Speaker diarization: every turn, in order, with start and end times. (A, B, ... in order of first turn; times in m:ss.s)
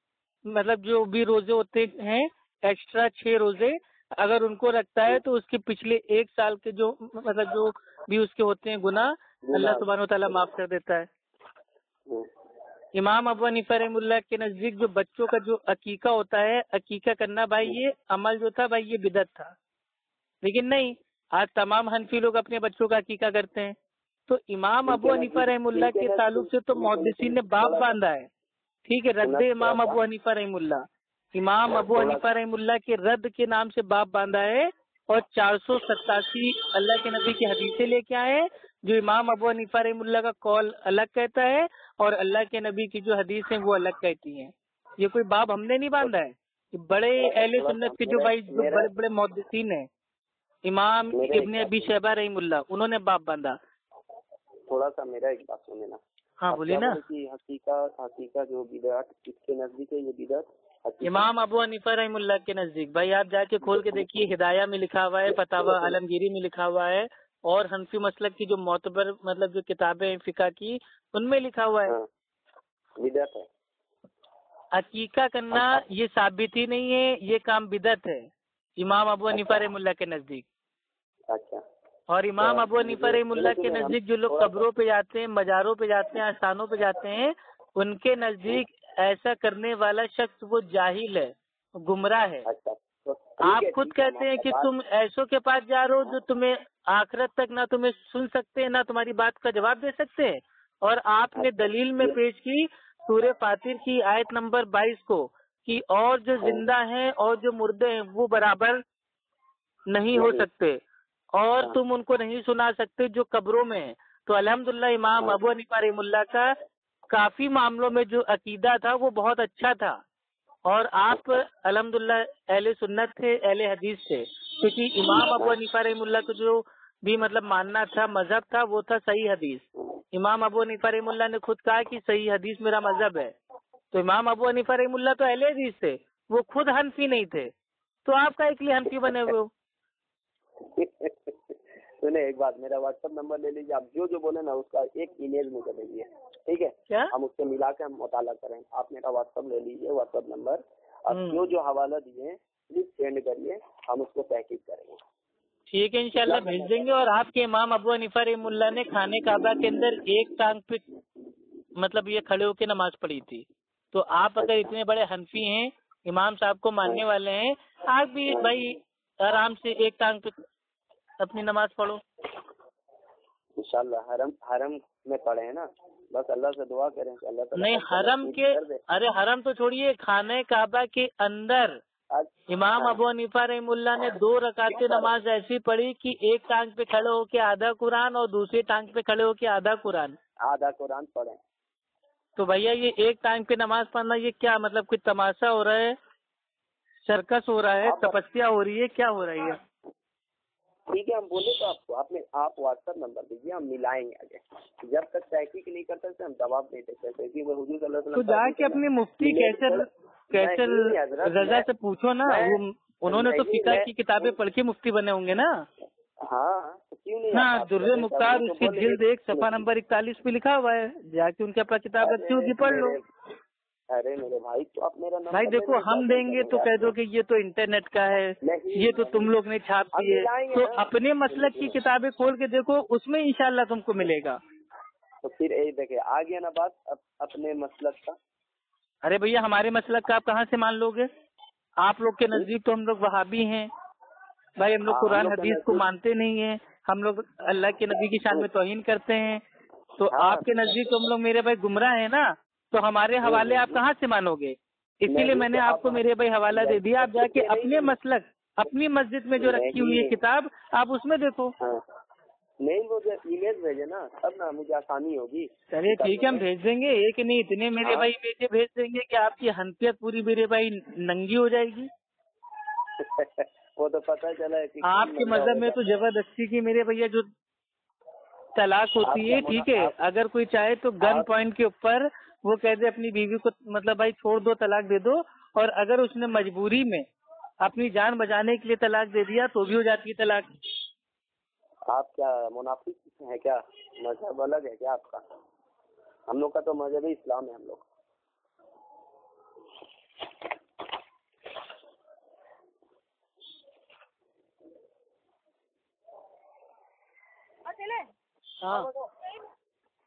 0:00.5-0:11.1 A
0:09.4-0:09.8 B
0:13.0-0:19.5 A
0:20.4-0:23.8 A
0:24.3-0:28.3 A
0:24.9-0:27.9 B
0:28.9-0:49.9 A
0:29.2-0:30.0 B
0:31.9-0:32.3 B
0:47.2-0:48.9 B
0:50.6-0:53.6 A
0:51.1-0:51.9 B
0:54.7-1:01.3 B
0:56.4-0:57.0 A
1:01.0-1:12.0 A
1:03.6-1:04.2 B
1:05.3-1:06.0 B
1:13.0-1:13.5 B
1:14.7-1:20.4 A
1:15.5-1:15.8 B
1:19.3-1:19.6 B
1:21.3-1:21.6 B
1:22.1-1:32.5 A
1:22.4-1:24.7 B
1:32.5-1:34.7 B
1:33.4-1:48.8 A
1:41.4-1:42.2 B
1:49.9-1:50.8 A
1:50.1-1:50.5 B
1:51.4-1:56.6 A
1:57.1-2:00.0 A
2:00.7-2:13.4 A
2:05.0-2:05.6 B
2:13.9-2:17.5 A
2:18.0-2:19.5 A
2:20.6-2:35.0 B
2:31.1-2:31.4 A
2:35.7-2:40.8 A
2:36.2-2:36.9 B
2:41.8-2:50.4 A
2:44.4-2:44.7 B
2:48.3-2:48.7 B
2:51.2-2:52.0 A
2:53.6-2:58.8 B
2:57.6-3:01.8 A
3:02.1-3:03.0 B
3:02.5-3:10.2 A
3:04.7-3:05.1 B
3:10.4-3:11.4 B
3:12.4-3:16.0 A
3:17.1-3:19.6 A
3:17.8-3:18.2 B
3:20.9-3:31.7 B
3:28.2-3:35.6 A
3:32.2-3:34.3 B
3:36.2-3:39.6 B
3:37.3-3:43.0 A
3:42.0-3:43.1 B
3:43.9-3:47.0 B
3:45.3-3:54.4 A
3:48.4-3:49.3 B
3:49.9-3:51.8 B
3:55.2-3:58.2 B
3:59.0-4:01.1 A
4:01.8-4:03.7 A
4:04.6-4:09.4 A
4:04.9-4:05.8 B
4:10.0-4:21.6 A
4:10.1-4:10.5 B
4:13.2-4:13.8 B
4:15.1-4:18.0 B
4:19.4-4:20.2 B
4:22.6-4:26.4 B
4:25.7-4:31.9 A
4:27.8-4:28.1 B
4:33.0-4:35.8 B
4:34.8-4:37.3 A
4:38.6-4:47.1 A
4:39.0-4:40.0 B
4:41.0-4:41.3 B
4:47.6-4:50.5 A
4:51.9-4:55.2 B
4:56.3-4:57.9 B
5:08.6-5:08.9 A